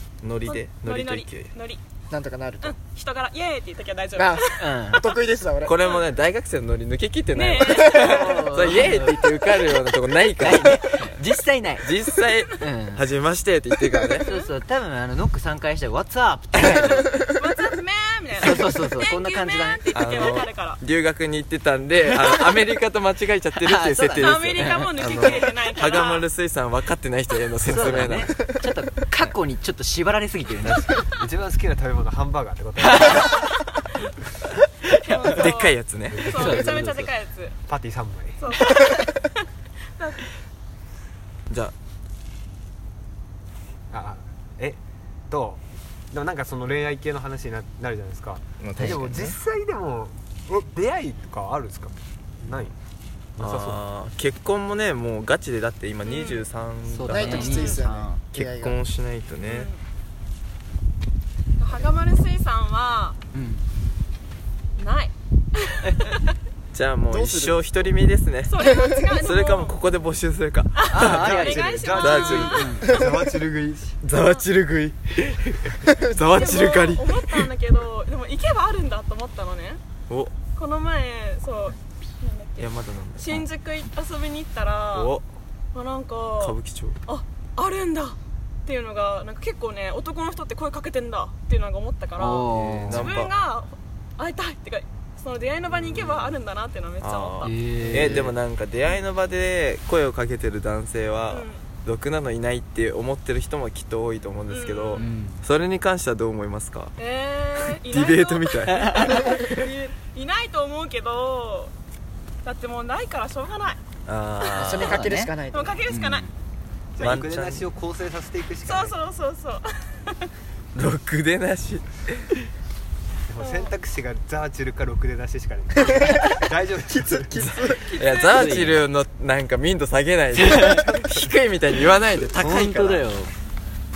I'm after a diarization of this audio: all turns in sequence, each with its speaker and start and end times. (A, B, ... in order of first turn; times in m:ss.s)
0:00.2-0:01.5 A
0:00.4-0:01.8 B
0:02.1-0:02.8 C
0:02.6-0:04.6 B
0:04.2-0:05.7 C
0:04.6-0:05.0 D
0:05.6-0:11.1 A
0:05.8-0:06.1 B
0:07.3-0:08.5 B
0:07.9-0:09.3 D
0:10.4-0:11.9 D
0:11.8-0:14.3 A
0:12.6-0:13.0 D
0:14.2-0:14.5 B
0:14.2-0:17.2 D
0:17.0-0:20.8 B
0:18.4-0:19.8 D
0:19.9-0:28.3 A
0:23.6-0:25.0 D
0:24.1-0:26.3 B
0:27.6-0:31.0 D
0:31.1-0:33.3 E
0:32.8-0:33.6 D
0:34.8-0:35.5 D
0:35.1-0:37.6 B
0:35.3-0:36.6 A
0:36.1-0:36.7 E
0:36.3-0:37.1 D
0:37.7-0:38.4 E
0:38.4-0:39.3 B
0:40.0-0:40.2 B
0:43.9-0:44.8 E
0:45.3-0:52.7 E
0:48.6-0:49.4 A
0:48.8-0:49.0 D
0:53.4-0:53.8 E
0:53.4-0:57.8 A
0:56.0-0:56.4 B
0:56.9-0:58.2 D
0:57.1-0:58.8 C
0:57.3-0:57.8 B
0:58.3-0:59.7 A
0:59.5-0:59.8 B
1:01.6-1:03.2 B
1:03.3-1:03.6 D
1:04.8-1:06.1 B
1:06.7-1:08.6 A
1:07.1-1:07.6 C
1:08.5-1:09.8 B
1:08.6-1:09.0 C
1:09.2-1:11.4 A
1:10.7-1:12.8 B
1:10.9-1:11.7 D
1:11.0-1:14.0 E
1:12.0-1:12.7 A
1:12.5-1:12.9 D
1:12.8-1:13.2 C
1:14.0-1:17.4 A
1:15.9-1:16.3 C
1:16.3-1:19.8 B
1:20.1-1:20.3 A
1:20.5-1:25.1 B
1:22.6-1:23.5 A
1:24.9-1:25.2 A
1:25.7-1:26.5 B
1:26.4-1:27.0 A
1:27.1-1:37.5 B
1:32.2-1:33.2 D
1:32.5-1:33.3 A
1:35.7-1:36.3 A
1:37.0-1:46.9 A
1:37.4-1:38.4 D
1:41.3-1:41.6 B
1:44.5-1:45.0 B
1:45.0-1:45.4 D
1:47.0-1:51.7 B
1:47.8-1:49.5 A
1:48.7-1:49.3 D
1:52.4-1:53.8 B
1:54.0-1:55.0 A
1:54.5-1:55.8 C
1:54.6-1:55.3 D
1:55.5-1:56.2 B
1:55.9-1:56.3 D
1:57.0-1:59.0 E
1:57.0-1:57.6 A
1:58.6-2:00.3 B
2:00.7-2:02.3 A
2:03.3-2:07.5 E
2:03.4-2:03.7 B
2:05.9-2:06.3 C
2:06.9-2:07.9 C
2:07.5-2:13.0 A
2:07.8-2:08.6 B
2:08.3-2:08.8 D
2:10.4-2:11.0 D
2:12.3-2:13.3 D